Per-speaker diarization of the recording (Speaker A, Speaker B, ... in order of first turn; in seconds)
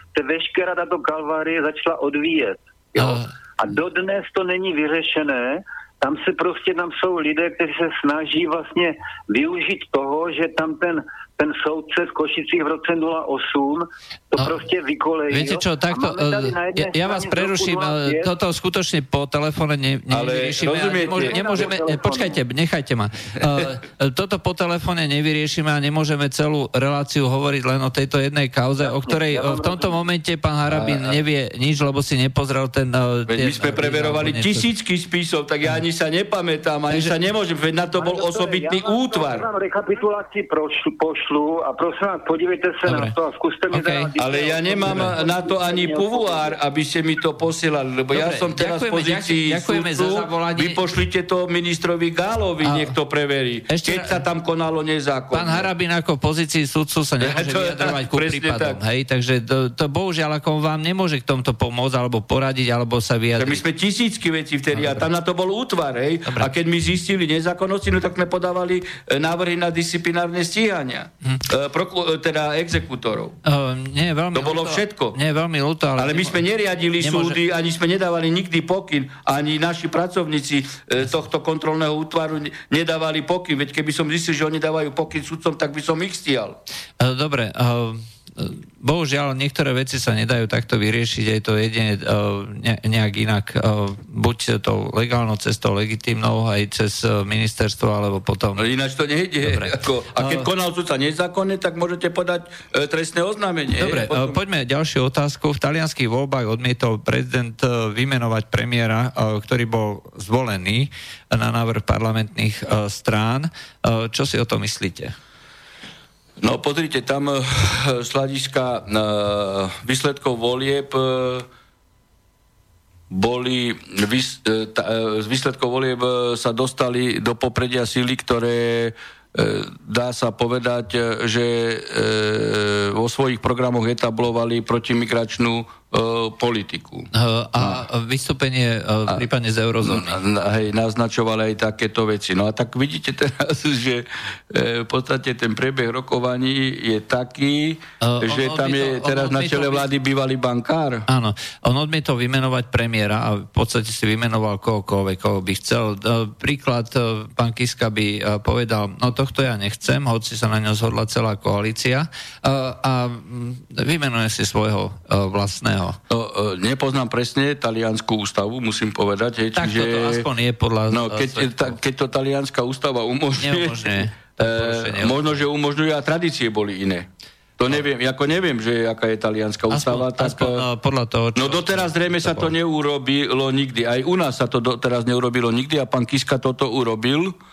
Speaker A: 0.1-18.3, 21.0-22.4, 28.8-30.0, 38.0-46.6
Speaker B: 3.0-3.3, 15.3-34.7, 42.9-43.1, 43.7-44.1, 44.9-45.1, 48.1-50.8, 52.6-53.0, 53.7-54.2, 55.3-63.6, 64.7-65.1, 73.5-76.4, 77.0-77.4, 87.0-98.6, 99.4-100.5, 103.8-115.1, 137.1-140.2, 148.0-149.9, 151.1-166.0, 169.6-171.8, 173.4-175.4, 179.7-182.5
Speaker C: 20.1-21.7, 23.4-23.7, 30.7-31.2, 33.3-39.5, 44.2-55.7, 57.2-58.8, 63.4-73.4, 74.3-75.2, 76.0-86.6, 98.6-104.4, 116.4-121.5, 123.1-137.8, 139.8-151.1, 166.1-170.3, 170.9-177.1, 177.6-180.7, 181.4-187.4